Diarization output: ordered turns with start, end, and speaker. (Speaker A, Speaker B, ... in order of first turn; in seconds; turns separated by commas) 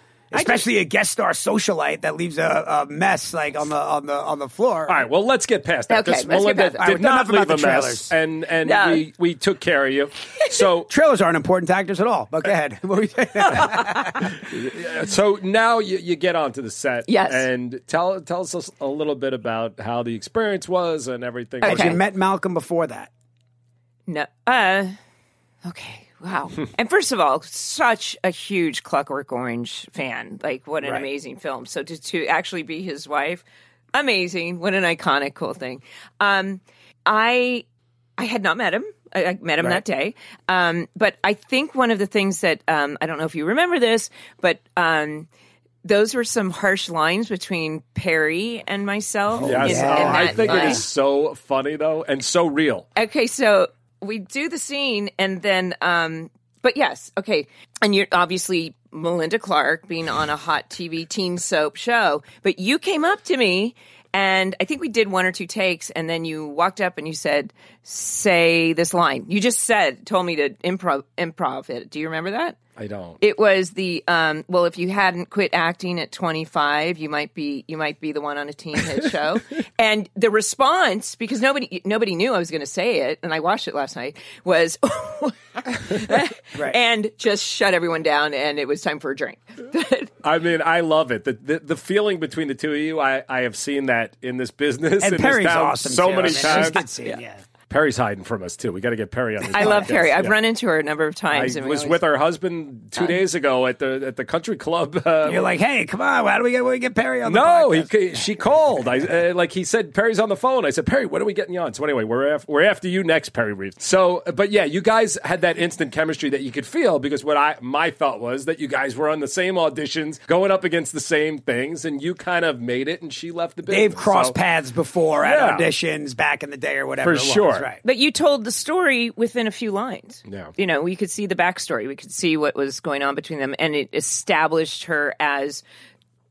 Speaker A: 0.3-5.0, Speaker B: 0.3-0.6, Speaker C: 4.9-10.9, Speaker B: 5.9-6.9, Speaker A: 6.3-8.1, Speaker B: 8.6-9.0, Speaker A: 10.9-14.3, Speaker B: 13.5-14.2, Speaker C: 14.2-22.0, Speaker B: 17.1-17.4, Speaker A: 21.6-23.1, Speaker B: 21.6-22.0, Speaker B: 24.1-25.0, Speaker B: 25.6-37.6, Speaker B: 38.2-45.3, Speaker B: 45.8-50.8, Speaker C: 49.4-52.9, Speaker A: 49.4-50.8, Speaker B: 53.0-72.6, Speaker C: 72.8-73.2, Speaker B: 73.2-90.1, Speaker C: 90.2-96.8, Speaker A: 95.0-97.4, Speaker B: 96.6-97.2, Speaker C: 97.7-100.3, Speaker A: 99.5-100.0, Speaker B: 99.5-102.0, Speaker C: 101.3-105.5, Speaker A: 105.2-108.2, Speaker C: 107.2-124.3, Speaker A: 123.7-127.8, Speaker C: 125.2-125.7, Speaker C: 127.0-127.7, Speaker B: 127.8-135.6, Speaker C: 130.2-130.5